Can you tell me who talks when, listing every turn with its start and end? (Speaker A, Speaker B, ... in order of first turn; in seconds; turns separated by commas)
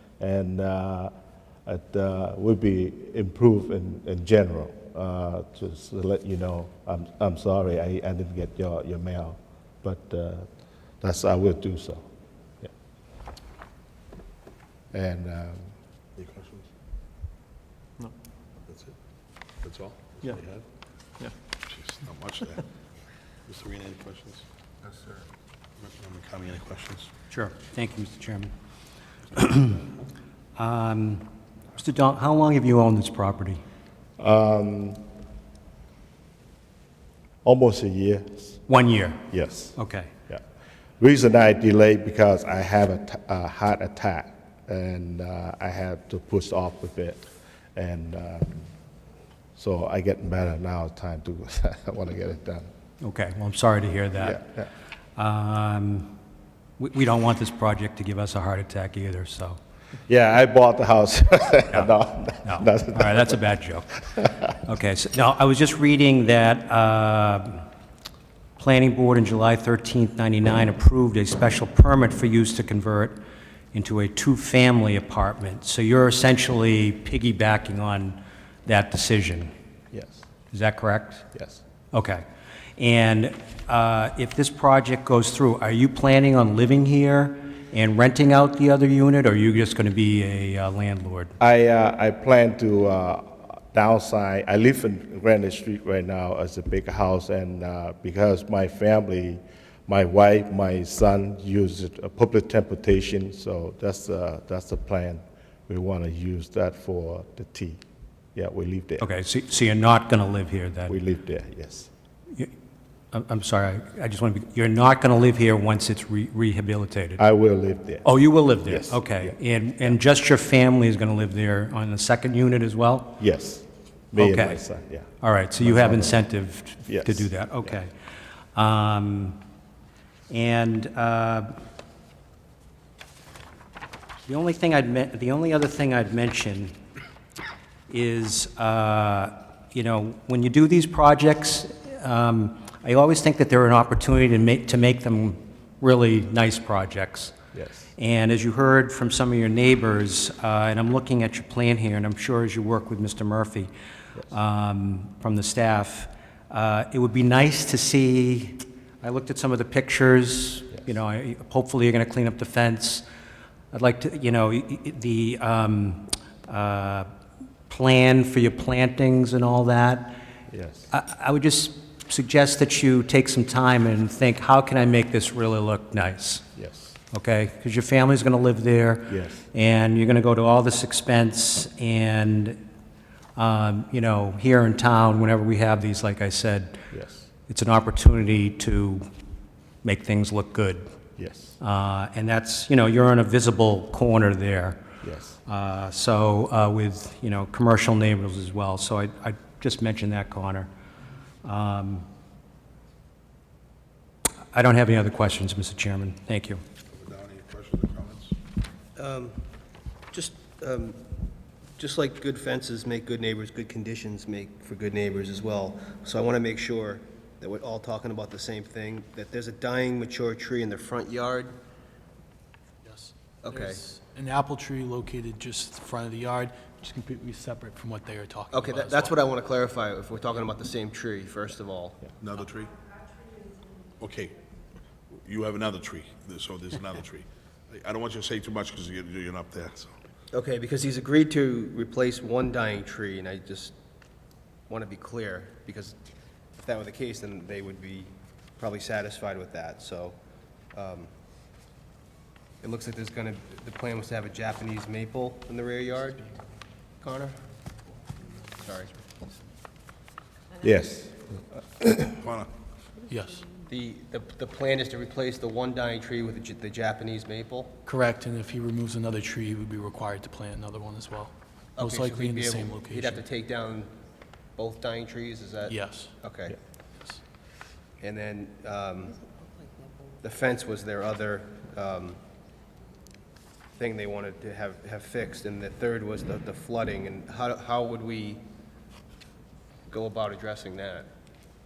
Speaker A: 0.2-1.1, Speaker A: 1.7-10.5, Speaker A: 11.0-12.1, Speaker A: 14.9-15.7, Speaker B: 16.2-16.6, Speaker B: 19.6-20.6, Speaker B: 21.7-22.6, Speaker B: 23.5-24.4, Speaker C: 24.9-25.2, Speaker B: 25.8-27.0, Speaker D: 27.3-28.5, Speaker D: 29.4-29.8, Speaker D: 30.6-33.6, Speaker A: 34.2-35.0, Speaker A: 37.5-38.6, Speaker D: 38.7-39.2, Speaker A: 39.3-39.8, Speaker D: 39.8-40.1, Speaker A: 41.0-47.2, Speaker A: 47.8-48.7, Speaker A: 49.6-52.7, Speaker D: 53.0-54.4, Speaker A: 54.2-54.7, Speaker D: 55.2-56.1, Speaker D: 56.8-59.6, Speaker A: 60.1-63.4, Speaker D: 62.4-67.6, Speaker D: 68.6-73.2, Speaker D: 73.7-79.5, Speaker A: 79.9-80.2, Speaker D: 80.5-81.3, Speaker A: 81.3-81.6, Speaker D: 81.9-82.2, Speaker D: 82.8-91.3, Speaker A: 91.4-107.8, Speaker A: 108.3-109.1, Speaker D: 109.0-111.0, Speaker A: 110.9-111.9, Speaker D: 113.1-117.2, Speaker A: 117.2-118.1, Speaker D: 118.0-123.2, Speaker A: 118.6-119.3, Speaker A: 123.2-126.2, Speaker D: 124.2-124.6, Speaker D: 125.2-127.9, Speaker A: 126.9-127.8, Speaker D: 128.6-129.4, Speaker D: 130.3-131.5, Speaker D: 134.3-136.8, Speaker D: 137.9-147.3, Speaker A: 147.6-147.9, Speaker D: 148.0-153.7, Speaker D: 154.3-163.0, Speaker D: 163.7-167.1, Speaker D: 167.7-170.2, Speaker A: 170.5-170.9, Speaker D: 170.9-176.5, Speaker A: 176.6-177.0, Speaker D: 177.1-182.6, Speaker A: 179.1-179.4, Speaker D: 183.4-186.8, Speaker A: 186.9-187.3, Speaker D: 187.5-189.0, Speaker D: 189.8-190.8, Speaker A: 191.2-191.6, Speaker D: 191.6-194.8, Speaker A: 195.0-195.4, Speaker D: 195.5-200.7, Speaker D: 201.4-202.1, Speaker D: 204.5-206.6, Speaker B: 206.9-208.2, Speaker C: 209.0-209.4, Speaker C: 210.1-211.0, Speaker C: 211.8-221.5, Speaker E: 222.8-229.2, Speaker C: 223.4-223.8, Speaker C: 228.5-232.1, Speaker B: 232.2-232.7, Speaker B: 234.0-234.3, Speaker B: 235.2-239.9, Speaker C: 240.3-243.7, Speaker C: 244.7-246.0, Speaker C: 246.6-250.2, Speaker C: 250.7-251.1, Speaker C: 252.6-256.3, Speaker C: 257.0-257.4, Speaker C: 258.5-259.0, Speaker A: 260.6-262.1, Speaker E: 263.1-263.5, Speaker C: 263.6-267.8, Speaker E: 267.9-273.2, Speaker C: 271.8-273.9, Speaker C: 274.6-276.6, Speaker E: 275.6-276.1, Speaker C: 278.0-279.2, Speaker C: 280.2-282.2, Speaker C: 283.8-288.4, Speaker C: 289.9-291.1